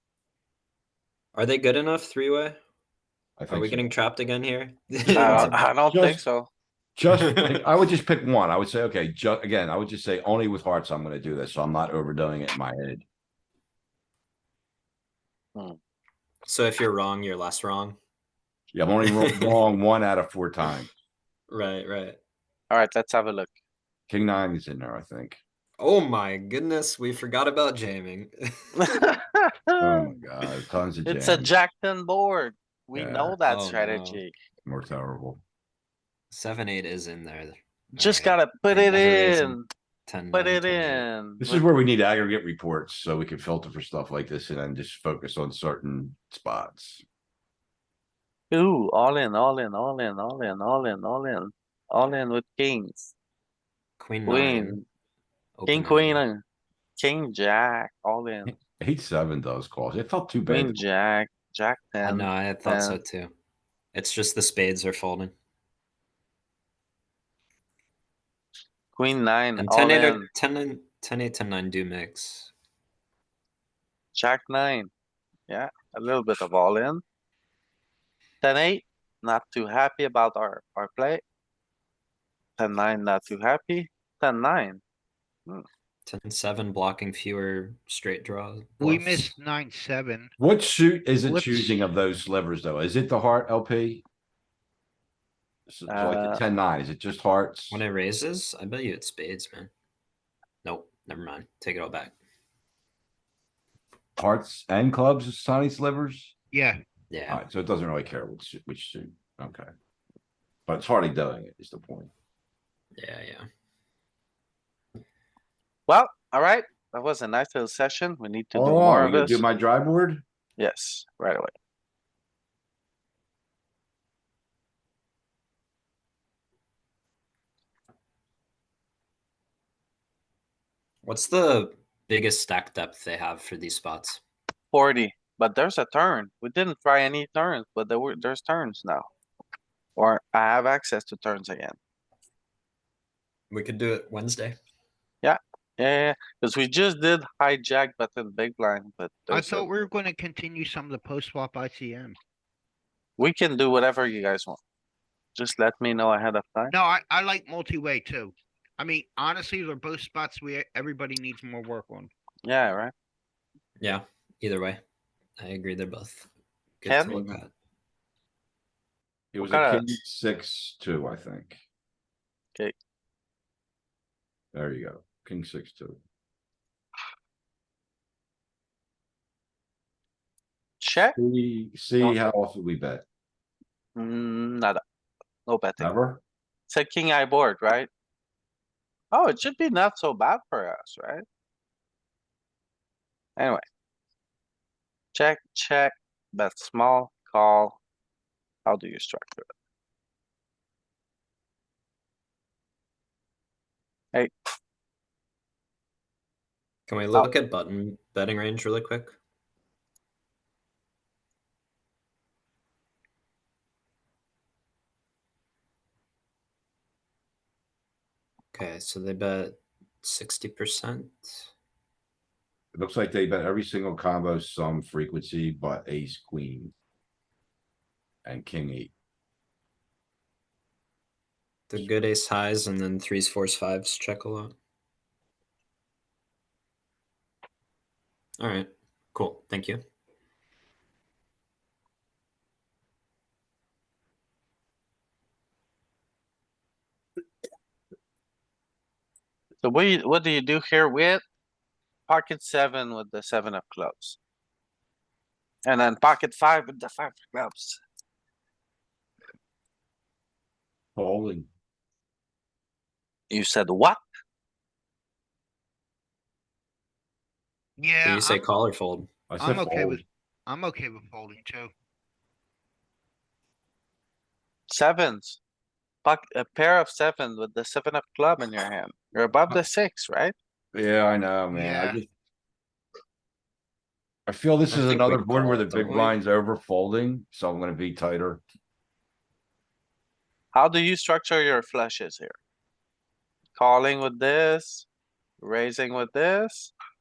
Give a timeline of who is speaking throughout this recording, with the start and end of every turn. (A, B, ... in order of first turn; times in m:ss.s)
0:01.3-0:02.6 A
0:03.4-0:03.9 B
0:03.5-0:05.6 A
0:05.1-0:06.5 C
0:05.2-0:06.2 B
0:07.0-0:13.0 B
0:07.2-0:07.4 A
0:16.4-0:18.0 A
0:18.7-0:20.9 B
0:19.2-0:19.5 A
0:21.5-0:22.2 A
0:22.7-0:23.5 C
0:24.1-0:25.4 B
0:25.8-0:28.8 A
0:28.8-0:30.1 C
0:29.8-0:31.5 B
0:31.0-0:34.3 C
0:32.9-0:33.4 B
0:33.5-0:34.2 A
0:34.6-0:35.4 B
0:36.3-0:41.0 A
0:37.9-0:39.7 C
0:40.3-0:41.6 C
0:41.4-0:47.0 B
0:48.5-0:53.1 C
0:54.0-0:54.8 A
0:54.2-0:54.8 C
0:55.6-0:56.2 A
0:55.7-0:56.4 C
0:57.0-0:58.5 C
0:58.5-1:00.8 B
1:00.5-1:03.0 C
1:02.0-1:03.3 A
1:03.9-1:05.3 A
1:08.9-1:10.3 C
1:09.6-1:12.5 A
1:14.1-1:14.9 C
1:15.5-1:17.0 C
1:18.4-1:21.2 C
1:22.6-1:24.8 C
1:26.0-1:29.3 A
1:28.8-1:30.3 D
1:30.4-1:34.0 B
1:31.2-1:31.8 D
1:35.7-1:37.8 B
1:35.9-1:36.4 C
1:37.7-1:39.7 A
1:40.6-1:42.1 A
1:44.2-1:46.3 B
1:46.5-1:46.8 D
1:47.1-1:47.4 A
1:47.3-1:49.7 B
1:50.7-1:52.1 B
1:53.0-1:53.5 A
1:55.9-1:59.4 C
1:58.5-2:00.2 B
2:00.6-2:01.5 C
2:11.0-2:14.2 A
2:14.7-2:19.1 C
2:20.0-2:21.8 C
2:23.5-2:24.6 A
2:25.2-2:29.7 C
2:29.3-2:32.2 D
2:33.2-2:34.6 C
2:35.4-2:36.7 C
2:36.7-2:42.1 D
2:42.4-2:42.9 C
2:43.8-2:44.8 A
2:45.4-2:46.3 A
2:46.8-2:47.5 A
2:46.9-2:47.2 C
2:49.3-2:51.6 B
2:49.4-2:50.0 C
2:54.5-2:56.0 B
3:00.8-3:01.2 C
3:01.2-3:03.0 B
3:02.0-3:02.3 C
3:04.0-3:04.8 C
3:05.5-3:05.9 C
3:05.8-3:06.2 B
3:06.7-3:07.9 C
3:09.1-3:11.2 C
3:13.4-3:13.6 C
3:15.1-3:17.8 C
3:18.6-3:19.5 C
3:26.9-3:29.2 A
3:38.5-3:41.5 A
3:42.7-3:46.7 B
3:48.2-3:48.9 B
3:51.7-3:54.5 A
3:58.4-3:59.8 A
4:09.6-4:11.2 C
4:12.1-4:14.2 C
4:15.6-4:17.8 C
4:21.0-4:21.5 B
4:23.3-4:24.0 C
4:27.8-4:28.4 D
4:28.0-4:29.1 A
4:29.3-4:30.0 B
4:29.4-4:31.7 D
4:34.7-4:35.4 C
4:36.0-4:40.3 C
4:40.7-4:42.1 B
4:41.5-4:42.0 D
4:44.3-4:48.4 B
4:44.7-4:46.2 A
4:50.5-4:52.3 C
4:53.5-4:54.8 C
4:55.4-4:56.7 C